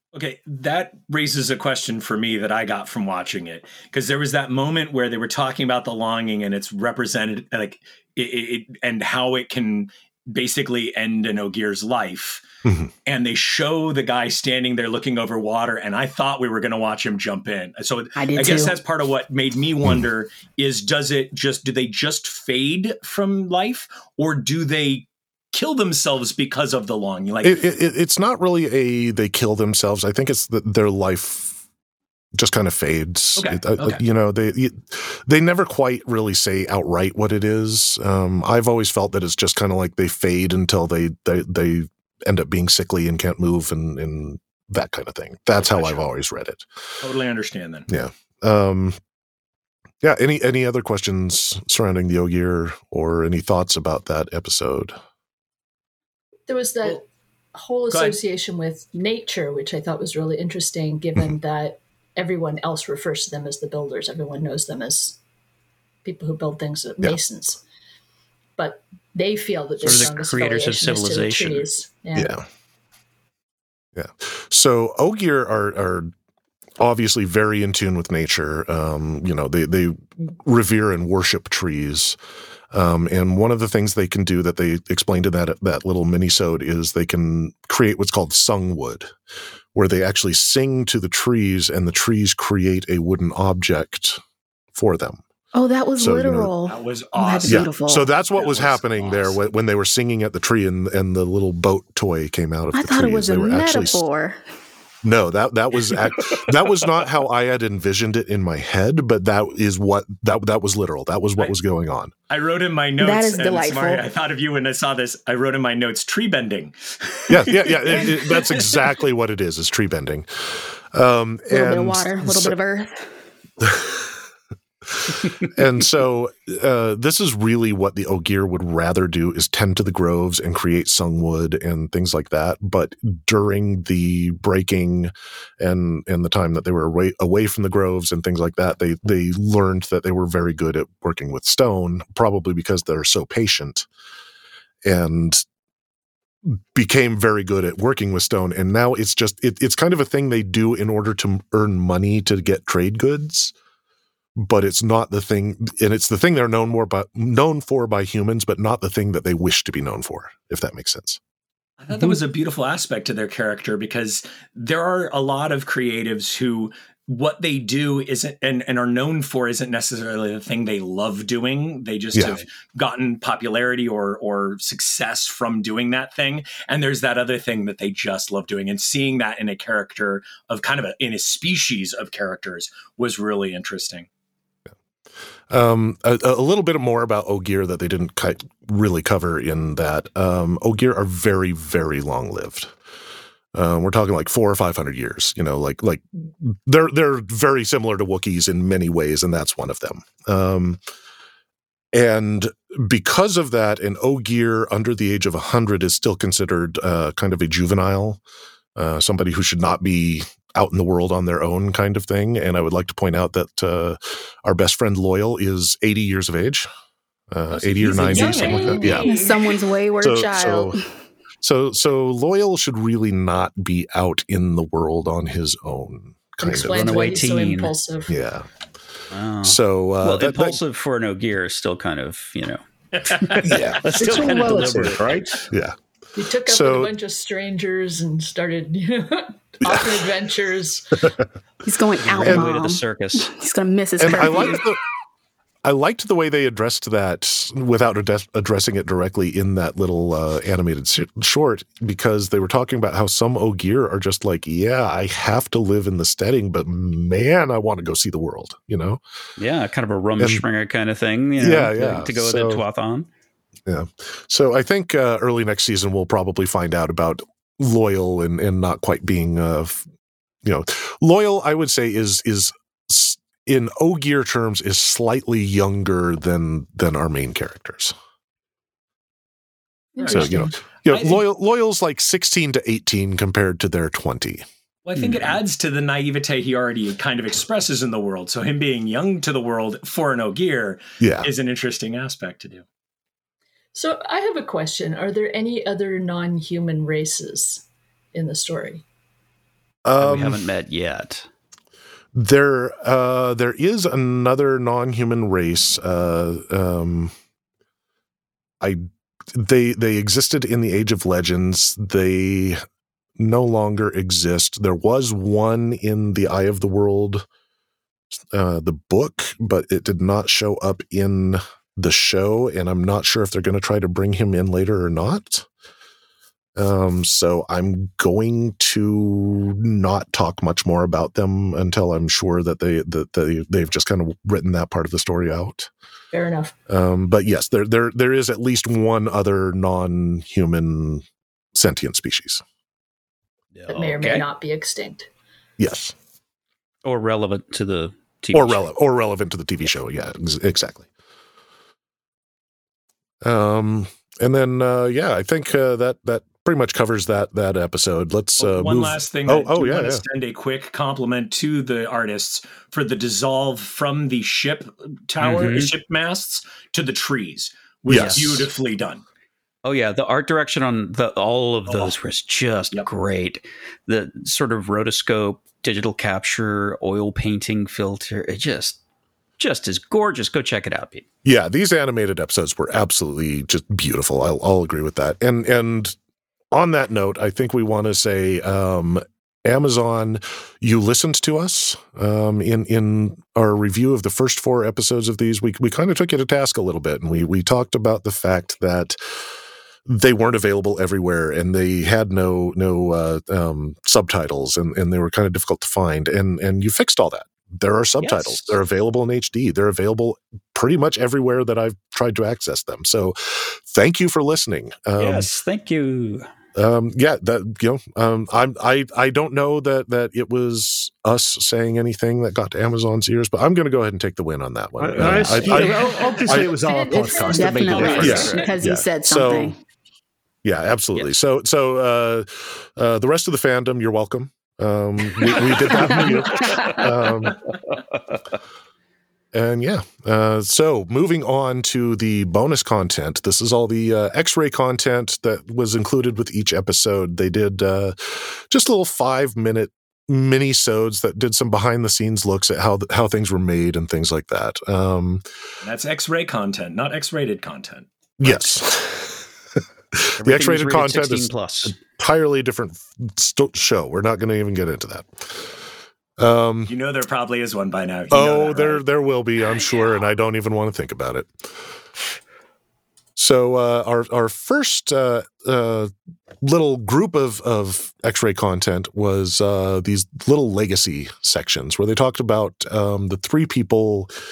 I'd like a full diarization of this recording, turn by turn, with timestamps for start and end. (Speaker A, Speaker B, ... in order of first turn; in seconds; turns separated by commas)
Speaker A: 0.1-12.4, Speaker B: 12.6-12.9, Speaker A: 13.1-27.6, Speaker C: 18.1-18.8, Speaker B: 27.4-31.6, Speaker B: 32.4-46.6, Speaker A: 33.4-34.0, Speaker A: 45.6-46.0, Speaker A: 47.0-47.9, Speaker B: 47.9-49.0, Speaker B: 50.0-54.9, Speaker D: 56.5-65.2, Speaker A: 57.9-58.2, Speaker D: 66.0-67.6, Speaker D: 68.6-72.4, Speaker E: 69.8-71.7, Speaker B: 72.1-72.4, Speaker B: 73.9-76.1, Speaker B: 76.8-82.2, Speaker B: 82.7-89.1, Speaker B: 89.8-94.2, Speaker B: 94.7-95.2, Speaker C: 95.5-98.1, Speaker B: 96.0-96.5, Speaker A: 96.7-97.8, Speaker B: 97.5-104.0, Speaker A: 98.3-99.4, Speaker C: 102.8-104.4, Speaker B: 105.0-112.1, Speaker A: 112.3-118.8, Speaker C: 113.0-114.0, Speaker B: 117.3-122.5, Speaker C: 121.5-123.0, Speaker B: 123.6-124.1, Speaker B: 124.9-143.9, Speaker B: 144.8-145.4, Speaker B: 146.4-153.5, Speaker B: 154.4-161.2, Speaker A: 161.8-184.1, Speaker B: 172.1-172.4, Speaker B: 185.5-192.7, Speaker B: 193.5-200.8, Speaker B: 201.9-208.2, Speaker B: 208.8-216.7, Speaker B: 217.3-219.1, Speaker A: 217.6-218.9, Speaker D: 217.8-219.6, Speaker C: 218.4-220.8, Speaker B: 220.0-220.8, Speaker B: 221.4-226.8, Speaker D: 226.4-228.1, Speaker E: 226.7-227.8, Speaker B: 228.1-228.4, Speaker E: 229.1-235.1, Speaker B: 229.4-230.6, Speaker A: 232.9-234.5, Speaker B: 233.4-233.8, Speaker F: 233.8-235.4, Speaker B: 235.5-235.8, Speaker D: 236.2-241.1, Speaker B: 236.4-236.9, Speaker C: 241.6-244.7, Speaker E: 242.0-243.3, Speaker B: 242.2-242.5, Speaker B: 244.0-244.8, Speaker B: 245.6-259.0, Speaker E: 259.4-263.1, Speaker B: 261.4-262.6, Speaker B: 263.6-269.9, Speaker B: 270.4-277.9, Speaker D: 279.9-280.5, Speaker A: 280.0-281.2, Speaker B: 280.1-284.4, Speaker A: 284.9-292.6, Speaker B: 291.0-291.3, Speaker D: 293.7-298.9, Speaker B: 299.9-300.4, Speaker E: 300.0-301.3, Speaker B: 302.1-307.1, Speaker B: 308.6-312.6, Speaker B: 313.2-317.2, Speaker B: 318.3-325.5, Speaker B: 326.6-335.7, Speaker D: 336.1-336.5, Speaker B: 336.7-342.4, Speaker E: 343.6-344.2, Speaker D: 343.7-345.1, Speaker B: 345.6-345.9, Speaker E: 346.9-348.7, Speaker B: 348.3-350.9, Speaker B: 353.2-360.0, Speaker A: 358.4-369.0, Speaker E: 365.2-365.7, Speaker B: 367.9-368.5, Speaker E: 367.9-368.4, Speaker E: 369.6-378.8, Speaker A: 371.7-371.9, Speaker E: 379.4-381.0, Speaker B: 381.2-385.9, Speaker B: 386.5-399.0, Speaker B: 399.9-415.3, Speaker E: 408.0-408.6, Speaker E: 415.0-416.3, Speaker B: 416.5-426.5, Speaker F: 424.8-428.5, Speaker E: 425.0-425.8, Speaker C: 426.7-429.6, Speaker D: 426.9-427.4, Speaker A: 427.6-428.1, Speaker E: 427.8-428.4, Speaker B: 428.0-429.6, Speaker B: 430.4-437.4, Speaker E: 435.3-436.1, Speaker E: 436.6-436.9, Speaker E: 437.7-438.2, Speaker B: 439.3-455.2, Speaker A: 455.6-457.9, Speaker B: 458.2-459.2, Speaker B: 459.9-465.6, Speaker E: 460.2-461.8, Speaker B: 466.2-466.7, Speaker A: 466.7-468.8, Speaker B: 468.1-471.8, Speaker B: 473.2-484.1